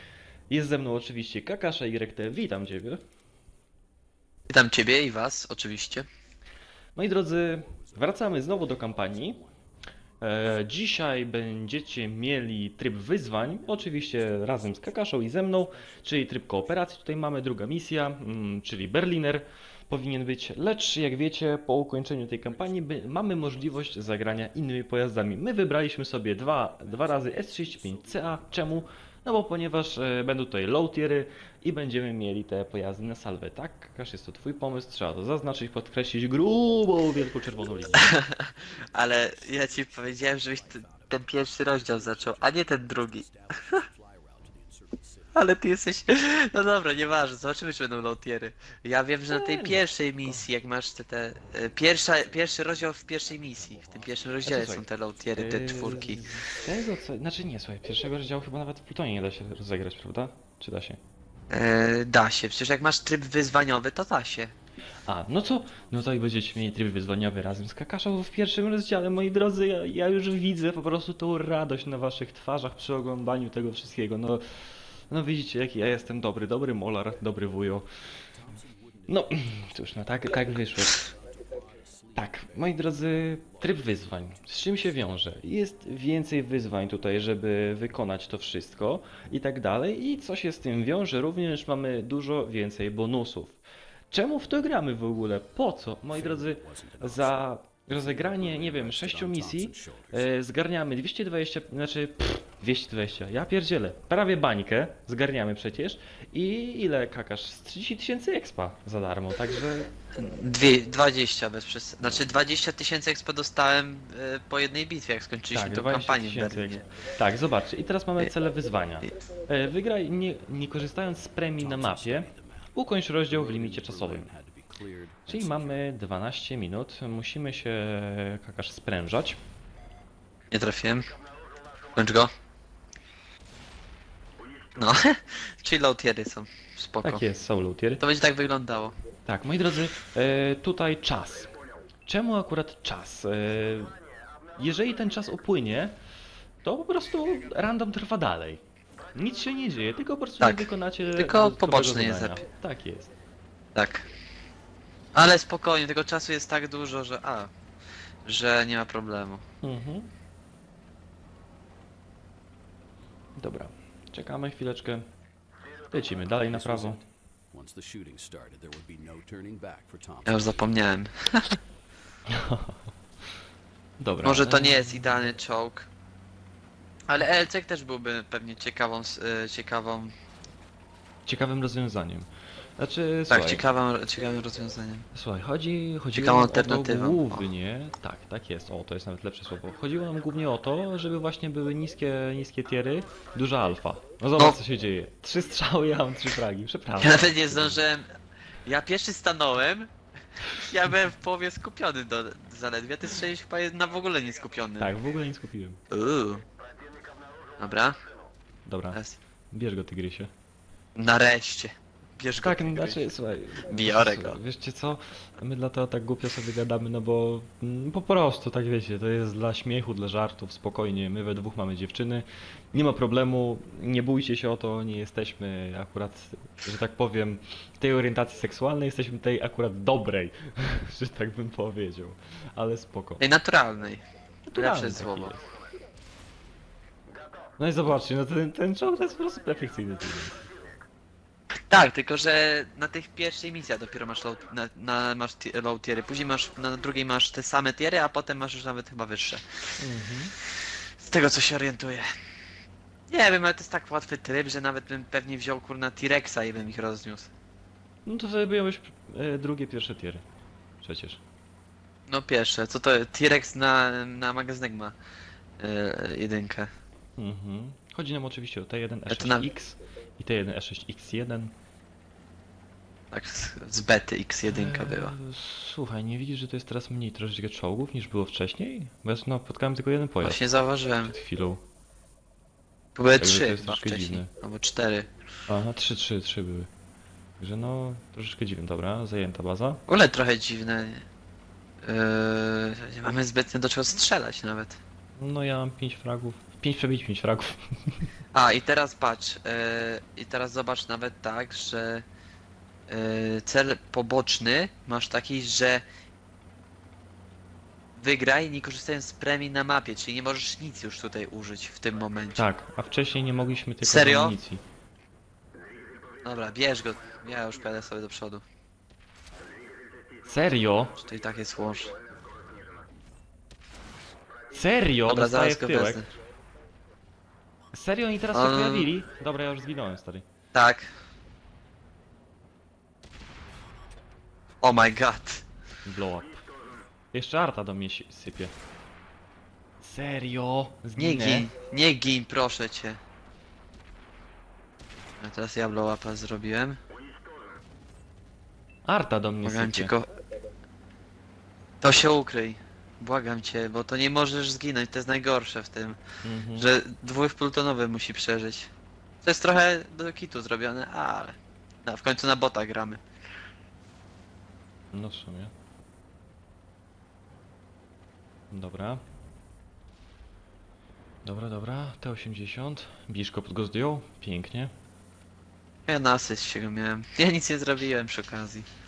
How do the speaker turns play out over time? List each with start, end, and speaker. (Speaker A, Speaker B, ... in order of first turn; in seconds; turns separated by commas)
Speaker A: 0.5-3.0, Speaker B: 4.5-6.0, Speaker A: 7.0-9.4, Speaker C: 7.5-9.6, Speaker A: 10.2-38.1, Speaker C: 13.6-16.9, Speaker C: 22.4-24.5, Speaker C: 26.4-28.9, Speaker C: 37.3-45.5, Speaker B: 38.0-43.3, Speaker B: 45.3-56.2, Speaker A: 49.3-50.4, Speaker C: 52.1-56.2, Speaker A: 54.4-54.8, Speaker A: 55.4-61.0, Speaker B: 61.5-64.5, Speaker A: 65.1-77.9, Speaker C: 78.3-85.4, Speaker A: 79.1-81.0, Speaker A: 82.1-109.9, Speaker C: 96.1-100.3, Speaker B: 110.1-116.8, Speaker A: 115.5-124.3, Speaker C: 121.6-122.7, Speaker C: 123.3-125.8, Speaker A: 125.3-129.4, Speaker B: 130.5-131.1, Speaker B: 131.9-132.3, Speaker B: 134.7-137.2, Speaker A: 137.0-138.0, Speaker B: 138.0-138.9, Speaker A: 139.2-141.5, Speaker A: 142.1-144.0, Speaker A: 144.5-146.0, Speaker A: 146.6-148.6, Speaker A: 149.1-153.1, Speaker B: 150.4-152.4, Speaker B: 153.7-154.1, Speaker B: 155.1-157.5, Speaker B: 158.2-159.4, Speaker A: 159.6-160.1, Speaker A: 163.4-165.1, Speaker A: 165.9-167.0, Speaker C: 165.9-170.8, Speaker B: 170.2-171.6, Speaker A: 172.3-172.9, Speaker A: 174.0-175.3, Speaker B: 174.2-175.9, Speaker B: 177.1-180.1, Speaker A: 181.2-183.6, Speaker B: 183.3-185.1, Speaker A: 185.1-197.8, Speaker B: 186.1-187.5, Speaker B: 197.0-198.1, Speaker B: 198.7-199.9, Speaker B: 200.5-205.0, Speaker A: 204.8-205.8, Speaker B: 205.9-206.4, Speaker B: 207.6-208.0, Speaker A: 208.7-209.0, Speaker A: 209.5-210.3, Speaker B: 210.9-213.1, Speaker A: 212.4-233.2, Speaker B: 213.7-214.4, Speaker B: 233.2-234.0, Speaker A: 234.5-235.4, Speaker B: 234.6-235.4, Speaker A: 237.6-240.5, Speaker B: 241.7-249.4, Speaker A: 249.8-250.3, Speaker B: 251.0-252.1, Speaker B: 253.1-257.3, Speaker A: 258.1-260.2, Speaker A: 260.8-261.2, Speaker B: 262.1-264.9, Speaker B: 265.6-266.7, Speaker A: 267.2-271.5, Speaker B: 269.1-269.5, Speaker B: 273.1-275.1, Speaker A: 274.5-280.4, Speaker B: 280.2-281.1, Speaker A: 281.1-281.6, Speaker B: 282.9-285.1, Speaker A: 283.2-284.3, Speaker A: 285.5-286.7, Speaker A: 287.4-289.8, Speaker B: 289.9-291.0, Speaker B: 291.8-294.8, Speaker A: 295.2-298.1, Speaker B: 298.3-302.0, Speaker B: 302.9-305.8, Speaker B: 308.0-312.4, Speaker A: 312.4-314.6, Speaker B: 313.8-314.4, Speaker B: 316.2-318.4, Speaker A: 320.2-321.0, Speaker B: 321.0-321.9, Speaker A: 324.5-326.1, Speaker B: 325.1-326.1, Speaker A: 327.7-330.2, Speaker B: 328.3-328.9, Speaker B: 330.5-330.9, Speaker B: 334.6-335.4, Speaker A: 335.8-336.4, Speaker A: 337.1-338.5, Speaker A: 339.8-341.5, Speaker B: 341.0-343.0, Speaker B: 345.2-346.8, Speaker A: 348.9-349.9, Speaker B: 349.4-350.1, Speaker B: 351.8-356.0, Speaker A: 356.2-356.7, Speaker B: 356.6-358.7, Speaker B: 359.2-363.0, Speaker A: 364.9-365.5, Speaker A: 368.5-369.0, Speaker A: 371.2-374.7, Speaker B: 375.9-378.7